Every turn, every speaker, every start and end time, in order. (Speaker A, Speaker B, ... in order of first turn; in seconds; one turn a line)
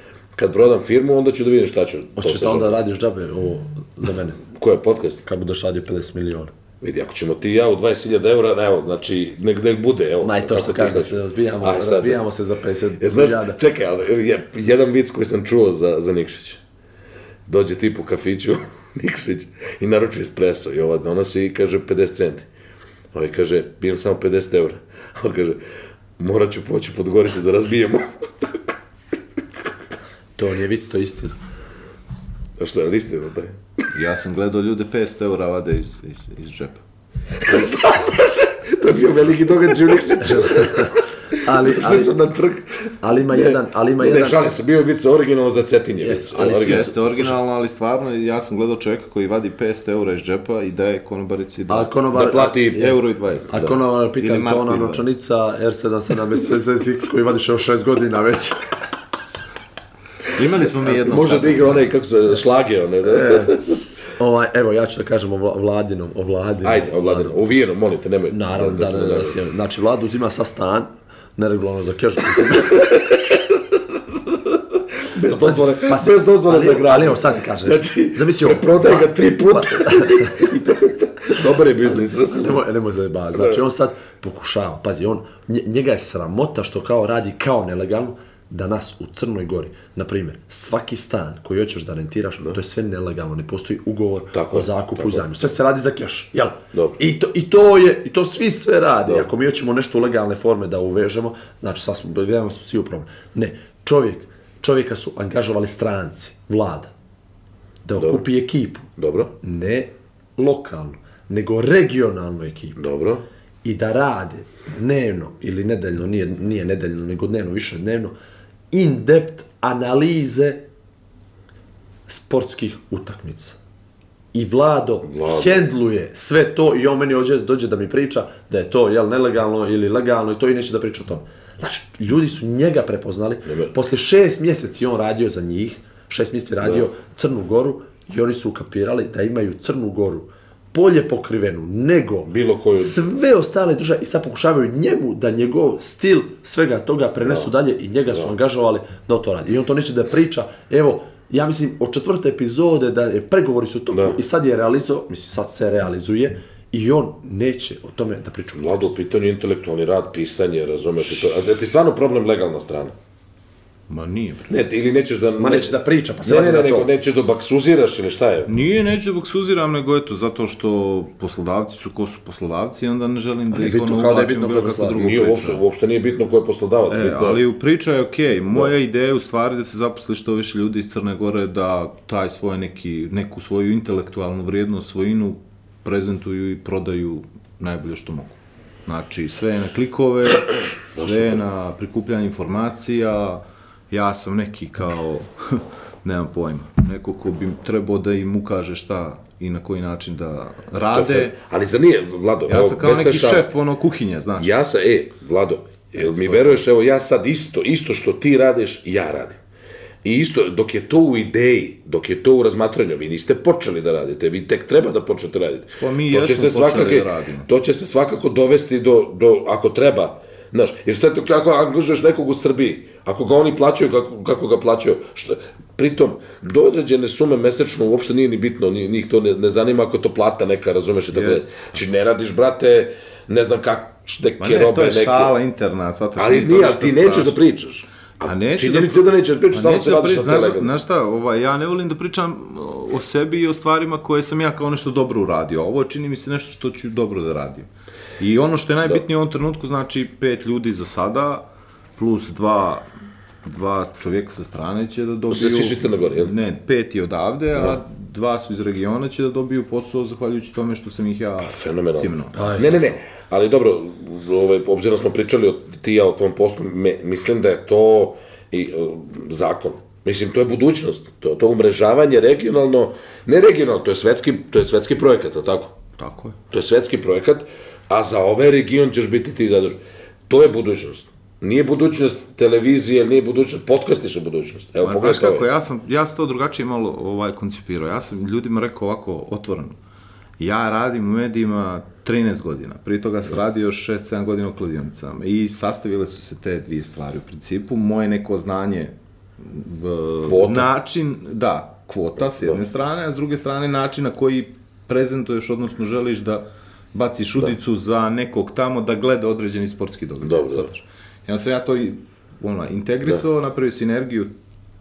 Speaker A: 0.3-2.8
Speaker B: 2.2-4.4
Speaker A: 4.5-5.2
Speaker B: 5.2-6.5
Speaker A: 6.8-12.2
Speaker B: 10.2-13.6
Speaker A: 13.0-16.6
Speaker A: 17.5-22.5
Speaker A: 23.1-25.6
Speaker A: 26.2-28.5
Speaker B: 30.4-31.3
Speaker A: 32.6-33.9
Speaker C: 33.9-36.8
Speaker A: 37.4-40.9
Speaker B: 40.2-42.2
Speaker A: 41.5-46.9
Speaker B: 43.0-44.5
Speaker B: 46.0-47.3
Speaker C: 46.5-51.9
Speaker B: 51.7-53.0
Speaker A: 52.1-52.9
Speaker C: 52.7-53.5
Speaker B: 53.5-58.6
Speaker C: 54.2-55.0
Speaker C: 60.3-61.9
Speaker A: 60.8-63.7
Speaker B: 63.0-63.5
Speaker B: 64.2-67.5
Speaker A: 66.6-69.4
Speaker B: 68.3-73.0
Speaker A: 75.1-82.6
Speaker B: 75.4-80.4
Speaker B: 82.2-106.9
Speaker A: 94.3-95.2
Speaker B: 107.8-108.9
Speaker A: 108.0-108.2
Speaker A: 109.0-109.3
Speaker B: 109.4-112.8
Speaker A: 112.8-113.2
Speaker B: 113.6-118.1
Speaker B: 118.7-120.6
Speaker B: 122.1-123.6
Speaker B: 124.3-158.9
Speaker A: 125.0-125.6
Speaker A: 133.4-133.7
Speaker A: 136.6-136.9
Speaker A: 142.3-143.0
Speaker A: 153.9-154.2
Speaker A: 158.6-162.9
Speaker C: 163.9-164.6
Speaker A: 164.5-168.5
Speaker B: 165.4-166.9
Speaker C: 168.5-175.6
Speaker B: 173.5-175.1
Speaker A: 175.0-177.4
Speaker C: 176.9-201.3
Speaker A: 190.9-191.4
Speaker A: 200.9-203.5
Speaker C: 202.5-204.5
Speaker A: 204.4-209.4
Speaker C: 206.0-206.6
Speaker A: 210.0-235.3
Speaker C: 215.8-217.5
Speaker C: 231.1-231.8
Speaker C: 234.4-237.4
Speaker A: 236.2-240.7
Speaker C: 238.2-247.7
Speaker C: 248.2-251.4
Speaker C: 252.0-252.8
Speaker C: 253.4-262.9
Speaker A: 255.3-256.3
Speaker A: 261.4-275.7
Speaker B: 262.3-262.7
Speaker C: 276.0-276.4
Speaker A: 276.5-285.5
Speaker C: 284.8-289.8
Speaker C: 290.4-314.3
Speaker A: 300.2-300.7
Speaker A: 302.2-302.6
Speaker A: 310.2-310.7